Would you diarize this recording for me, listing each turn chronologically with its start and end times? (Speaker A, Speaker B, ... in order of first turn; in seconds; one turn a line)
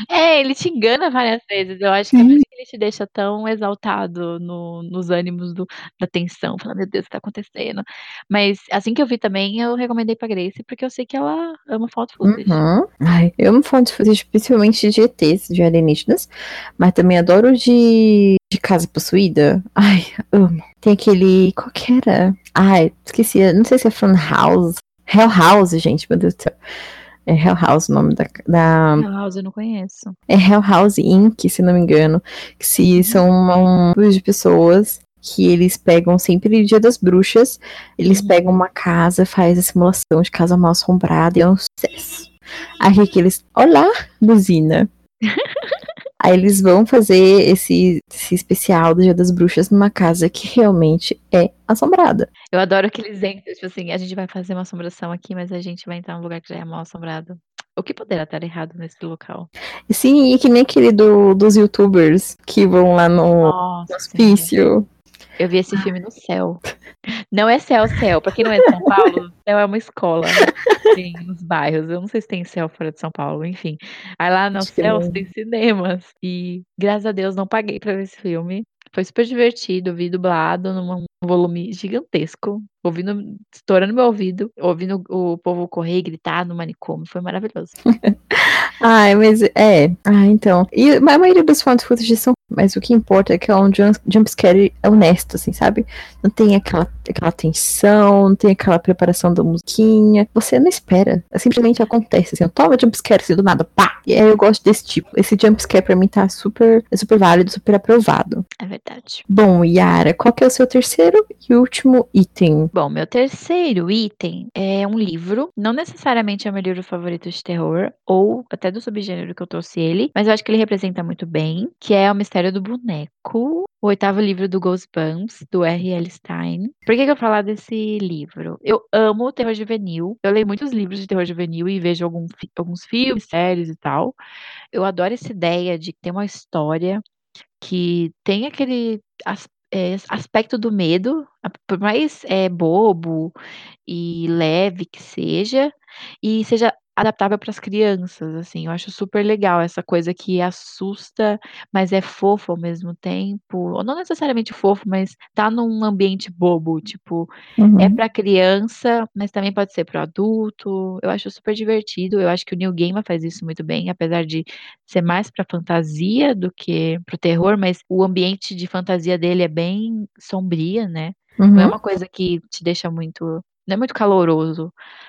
Speaker A: 0.1-12.6
Speaker B: 2.1-2.4
Speaker B: 12.2-26.6
Speaker B: 27.3-29.1
Speaker A: 28.9-30.1
Speaker B: 30.3-42.3
Speaker A: 33.0-33.2
Speaker A: 38.1-38.4
Speaker B: 42.8-44.9
Speaker A: 45.2-45.7
Speaker B: 46.2-52.3
Speaker A: 52.5-59.5
Speaker B: 59.9-64.8
Speaker A: 63.4-64.5
Speaker A: 65.4-66.6
Speaker A: 67.3-87.7
Speaker B: 68.4-69.1
Speaker B: 70.4-71.0
Speaker B: 74.6-75.2
Speaker B: 88.0-108.5
Speaker A: 108.6-109.2
Speaker B: 109.3-112.7
Speaker A: 112.7-134.2
Speaker A: 134.7-137.0
Speaker A: 137.6-143.3
Speaker A: 143.9-174.7
Speaker B: 157.6-158.0
Speaker B: 171.4-171.7